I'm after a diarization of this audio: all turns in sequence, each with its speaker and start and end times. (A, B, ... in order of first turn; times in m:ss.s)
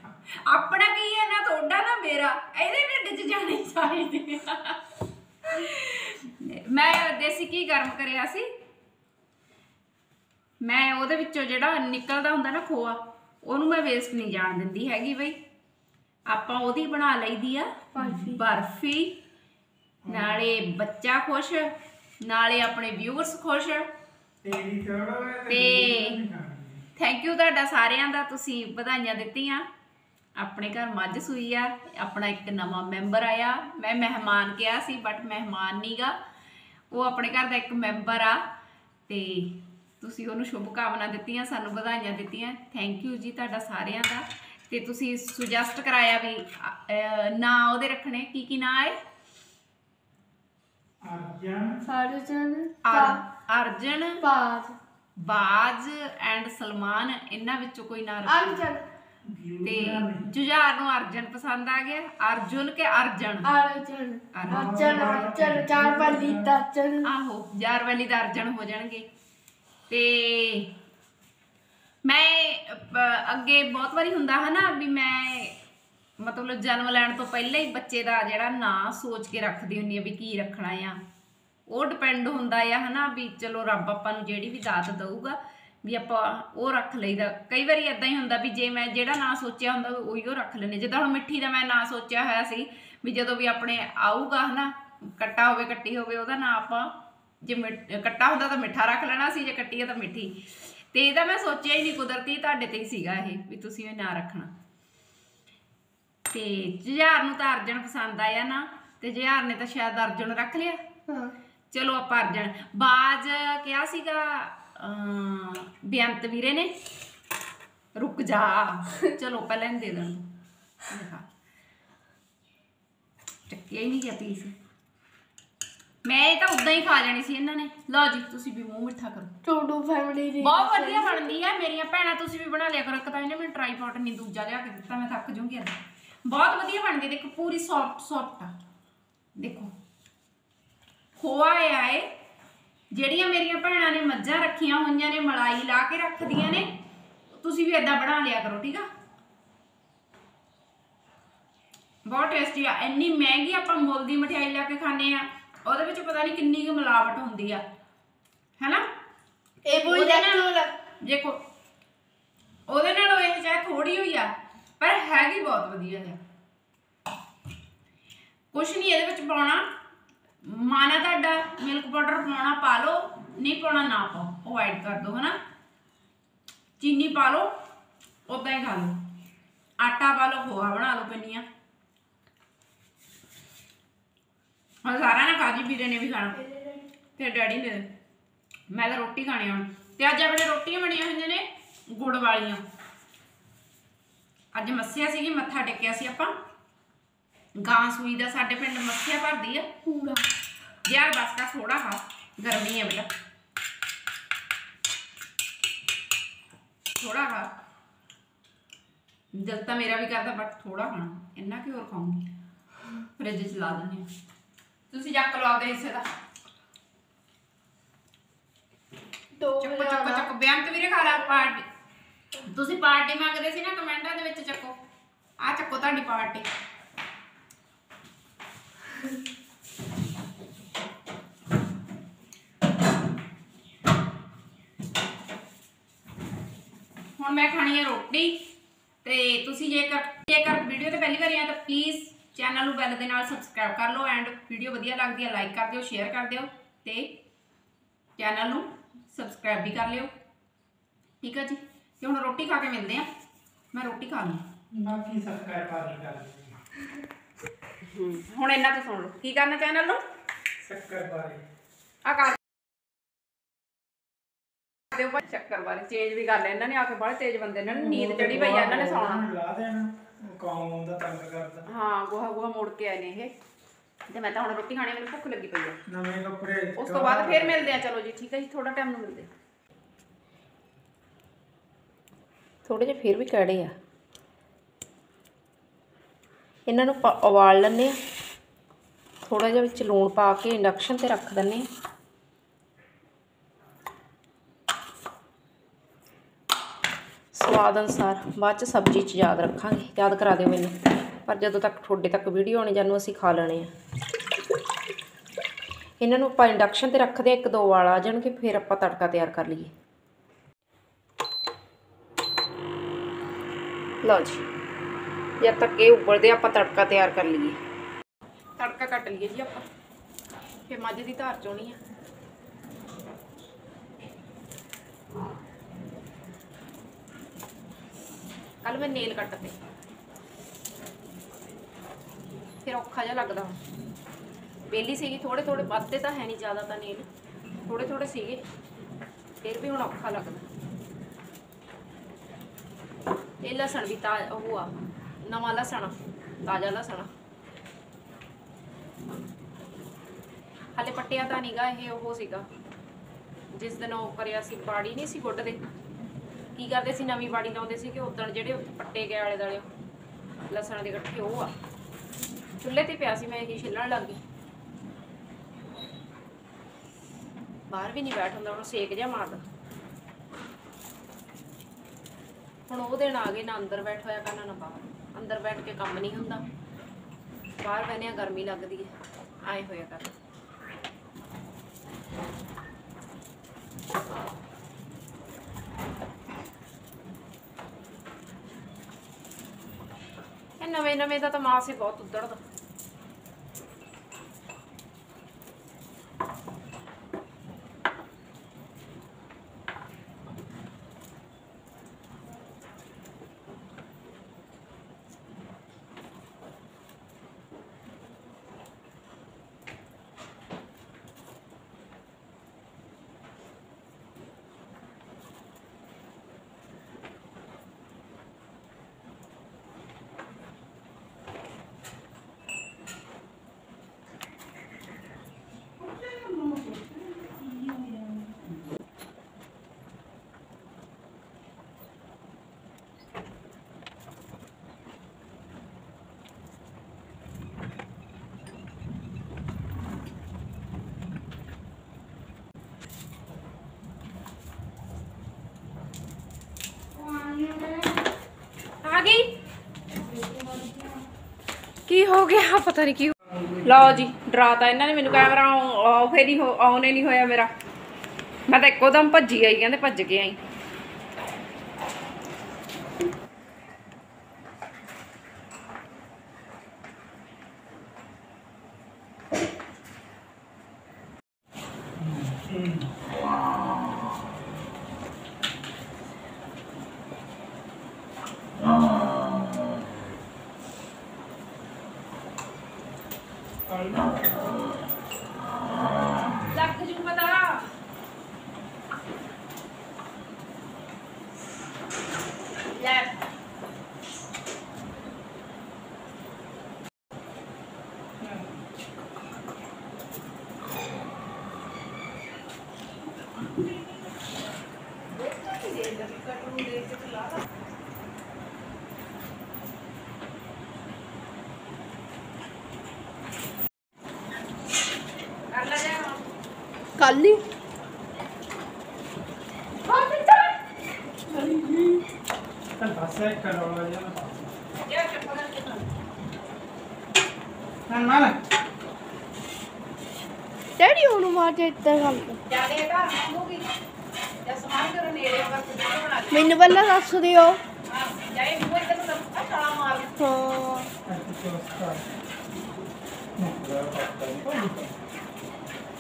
0:00.5-0:04.8 A
0:05.4-0:08.5 A
0:10.6-0:15.4 A
0:16.3-0:19.2 A
0:18.0-0:18.4 B
0:20.1-0:20.4 C
0:20.1-0:21.7 A
0:22.2-0:23.9 A
0:24.4-0:26.8 C
0:25.5-0:26.2 A
0:27.0-0:29.6 A
0:30.4-0:36.2 A
0:36.9-0:38.4 A
0:39.1-0:49.0 A
0:51.0-0:51.8 C
0:51.8-0:53.2 B
0:52.8-0:54.2 A
0:54.2-0:54.8 B
0:55.2-0:58.7 A
0:58.3-0:58.8 B
0:59.3-1:00.2 C
0:59.6-1:03.5 A
1:03.4-1:07.1 B
1:04.3-1:05.3 A
1:04.5-1:06.6 C
1:07.0-1:09.1 A
1:09.9-1:10.7 A
1:12.0-1:15.6 A
1:16.2-1:21.0 A
1:21.7-1:44.5 A
1:46.3-1:50.8 A
1:51.7-1:56.7 A
1:58.0-2:00.2 A
2:00.9-2:01.2 A
2:03.5-2:04.5 A
2:06.0-2:09.3 A
2:09.4-2:11.3 B
2:10.4-2:15.7 A
2:16.2-2:18.5 A
2:19.4-2:19.7 A
2:21.2-2:22.1 A
2:22.9-2:26.7 A
2:27.3-2:28.9 A
2:32.0-2:37.6 A
2:38.6-2:38.8 A
2:39.7-2:40.7 B
2:39.7-2:41.4 A
2:42.7-2:46.2 A
2:48.5-2:49.6 A
2:50.4-2:55.4 A
2:56.8-2:57.5 A
2:58.3-2:59.0 A
2:59.8-3:01.4 A
3:04.8-3:06.5 A
3:06.4-3:06.8 B
3:07.2-3:07.9 A
3:08.7-3:12.6 A
3:14.5-3:16.3 A
3:17.6-3:19.7 A
3:19.8-3:20.2 B
3:20.9-3:23.1 A
3:27.0-3:27.5 A
3:29.3-3:32.2 A
3:33.2-3:34.1 A
3:34.9-3:36.1 A
3:39.4-3:40.3 B
3:39.6-3:41.6 A
3:42.4-3:44.8 A
3:45.4-3:46.5 A
3:57.2-3:58.4 A
3:59.0-4:07.1 A
4:08.2-4:10.1 A
4:11.2-4:13.1 A
4:13.7-4:14.4 A
4:14.7-4:16.6 C
4:17.9-4:20.0 A
4:20.6-4:21.4 C
4:22.0-4:22.4 A
4:24.9-4:29.2 A
4:27.8-4:31.6 C
4:31.7-4:33.3 A
4:34.1-4:35.8 A
4:35.9-4:37.6 C
4:36.8-4:39.3 A
4:42.6-4:43.7 A
4:46.7-4:48.0 A
4:49.2-4:51.7 A
4:57.3-5:03.7 A
5:06.0-5:09.7 A
5:14.0-5:14.4 A
5:15.4-5:17.6 A
5:18.6-5:19.7 A
5:20.7-5:21.8 A
5:28.6-5:29.6 A
5:32.6-5:33.6 A
5:34.7-5:37.1 A
5:37.7-5:38.4 A
5:39.4-5:40.4 A
5:43.4-5:44.7 A
5:45.2-5:47.1 A
5:50.8-5:52.5 A
5:53.5-5:55.6 A
5:56.6-5:59.7 A
6:00.5-6:01.5 A
6:02.6-6:04.2 A
6:07.7-6:09.4 A
6:12.7-6:16.4 A
6:17.6-6:18.9 A
6:19.5-6:20.2 A
6:30.6-6:32.4 A
7:05.8-7:08.3 C
7:27.2-7:27.6 A
7:28.8-7:29.3 A
7:31.9-7:37.5 A
7:33.4-7:33.6 C
7:38.5-7:40.4 A
7:52.0-7:52.9 C
8:03.7-8:04.2 C
8:06.5-8:07.7 A
8:12.7-8:13.2 A
8:18.2-8:18.6 C
8:25.1-8:27.4 A
8:35.5-8:36.2 A
8:37.0-8:37.4 B
8:39.8-8:40.6 A
8:41.3-8:42.0 B
8:42.8-8:44.4 C
8:44.8-8:45.9 A
8:47.9-8:48.4 C
8:50.8-8:52.4 B
8:52.5-8:53.7 A
8:54.4-8:56.6 A
8:56.3-8:57.6 B
8:57.9-9:00.2 A
9:00.2-9:00.9 B
9:01.1-9:02.0 C
9:03.4-9:04.9 C